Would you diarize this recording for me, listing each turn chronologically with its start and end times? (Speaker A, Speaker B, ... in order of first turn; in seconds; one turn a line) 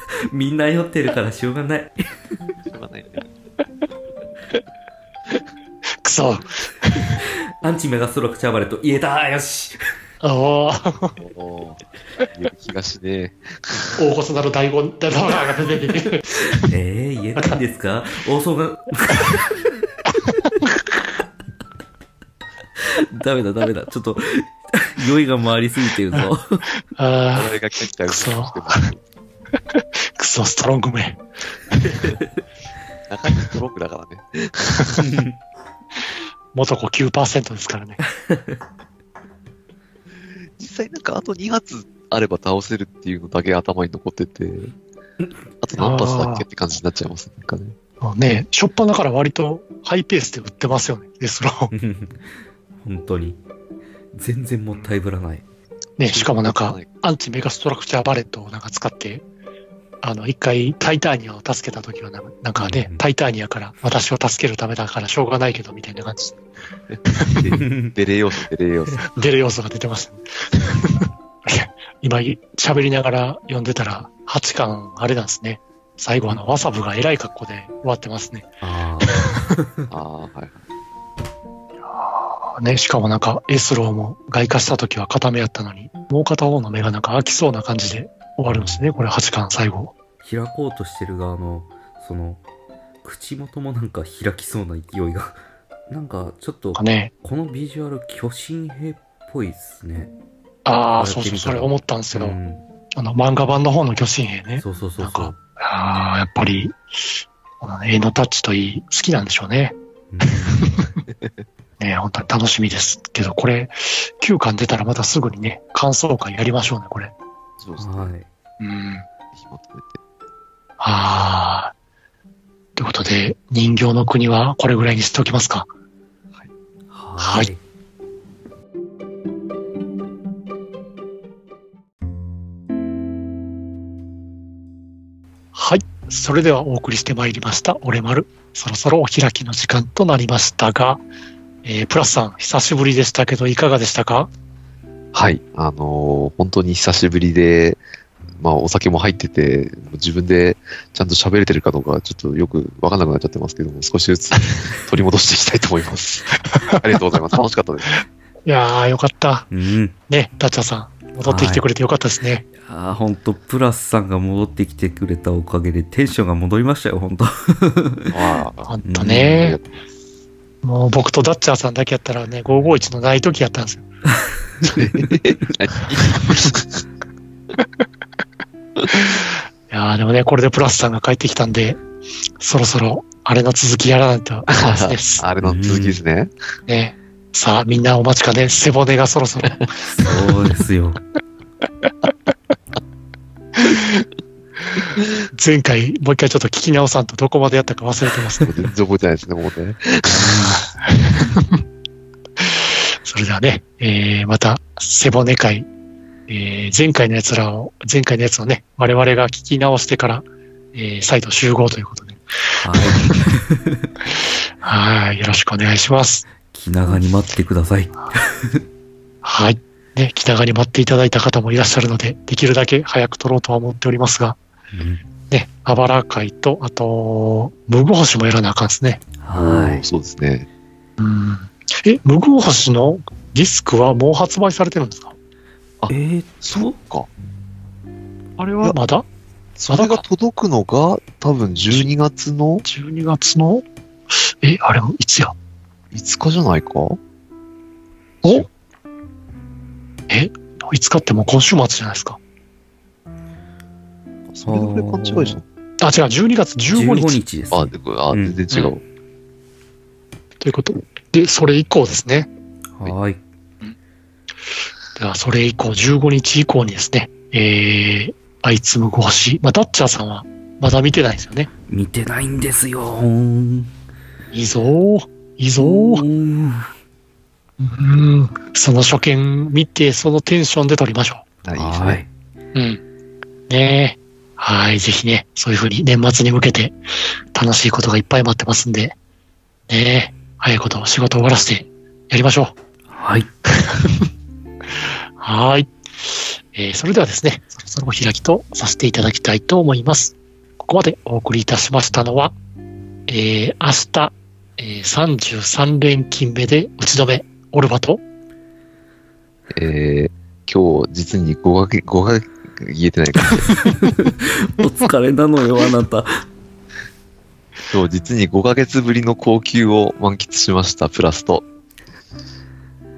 Speaker A: 0.3-2.1
Speaker B: 2.6-3.2
Speaker C: 6.0-7.2
Speaker A: 7.2-9.8
Speaker C: 10.2-11.2
Speaker B: 11.2-14.0
Speaker C: 14.0-16.2
Speaker A: 16.6-19.5
Speaker A: 22.8-26.7
Speaker C: 26.9-28.8
Speaker B: 27.3-29.0
Speaker C: 29.7-32.1
Speaker B: 33.1-35.0
Speaker A: 35.0-35.3
Speaker C: 36.5-38.0
Speaker A: 38.3-38.5
Speaker B: 40.2-44.7
Speaker B: 45.6-47.7
Speaker C: 45.8-46.4
Speaker C: 48.0-51.7
Speaker A: 51.7-53.4
Speaker A: 54.1-55.4
Speaker C: 56.0-59.2
Speaker B: 56.0-56.9
Speaker C: 60.0-66.4
Speaker A: 62.6-63.0
Speaker B: 66.9-69.0
Speaker C: 67.1-67.4
Speaker A: 67.5-67.9
Speaker C: 69.1-78.5
Speaker A: 78.6-79.9
Speaker B: 79.9-80.6
Speaker C: 81.9-89.9
Speaker A: 88.5-88.9
Speaker A: 90.2-92.4
Speaker A: 93.0-100.1
Speaker C: 96.7-97.1
Speaker C: 100.6-102.4
Speaker A: 101.0-102.6
Speaker C: 103.0-106.8
Speaker A: 104.6-105.4
Speaker C: 107.6-111.0
Speaker A: 110.1-110.7
Speaker B: 111.1-111.4
Speaker C: 111.8-117.1
Speaker B: 117.6-118.1
Speaker A: 117.8-118.3
Speaker C: 118.6-119.1
Speaker B: 119.3-120.0
Speaker C: 120.8-121.7
Speaker C: 122.8-125.7
Speaker A: 126.9-127.6
Speaker C: 127.2-127.5
Speaker C: 135.5-141.0
Speaker C: 141.6-144.3
Speaker B: 145.1-147.8
Speaker B: 148.3-158.0
Speaker C: 156.5-156.8
Speaker C: 157.9-159.5
Speaker A: 159.5-159.9
Speaker C: 160.1-162.4
Speaker A: 161.2-161.7
Speaker A: 162.6-169.6
Speaker B: 168.1-168.7
Speaker C: 168.7-169.6
Speaker B: 169.3-169.9
Speaker C: 170.6-173.9
Speaker B: 174.6-176.8
Speaker A: 174.6-175.1
Speaker C: 178.9-181.8
Speaker C: 182.4-185.2
Speaker B: 184.5-186.3
Speaker A: 185.4-186.0
Speaker C: 186.7-190.1
Speaker A: 189.9-191.0
Speaker C: 193.6-194.0
Speaker C: 194.7-198.5
Speaker B: 198.4-200.5
Speaker A: 200.1-200.7
Speaker C: 200.6-201.6
Speaker C: 202.4-205.7
Speaker C: 206.3-213.2
Speaker A: 212.6-213.9
Speaker C: 214.6-216.3
Speaker A: 216.5-218.6
Speaker C: 219.2-224.4
Speaker A: 224.7-225.0
Speaker C: 225.3-229.0
Speaker A: 229.2-229.8
Speaker B: 229.3-230.5
Speaker C: 231.0-235.2
Speaker B: 235.8-237.1
Speaker A: 235.9-236.8
Speaker C: 238.4-239.1
Speaker B: 239.6-242.6
Speaker C: 239.7-240.0
Speaker C: 242.6-243.6
Speaker C: 244.3-245.3
Speaker B: 245.9-247.0
Speaker B: 248.2-248.5
Speaker C: 250.1-252.2
Speaker B: 254.3-255.4
Speaker A: 254.4-255.4
Speaker C: 255.8-257.2
Speaker A: 256.7-258.4
Speaker B: 257.5-258.8
Speaker C: 260.4-262.3
Speaker A: 262.8-263.2
Speaker C: 264.9-271.5
Speaker A: 271.7-273.7
Speaker C: 274.3-276.0
Speaker A: 275.6-276.7
Speaker C: 277.6-281.2
Speaker B: 281.4-282.0
Speaker A: 281.5-282.1
Speaker C: 282.5-282.8
Speaker C: 283.5-286.7
Speaker C: 287.3-288.9
Speaker C: 289.7-292.5
Speaker A: 292.9-293.3
Speaker C: 293.5-294.1
Speaker C: 295.2-302.3
Speaker C: 303.1-308.0
Speaker B: 309.5-313.5
Speaker A: 313.5-316.2
Speaker B: 317.7-321.4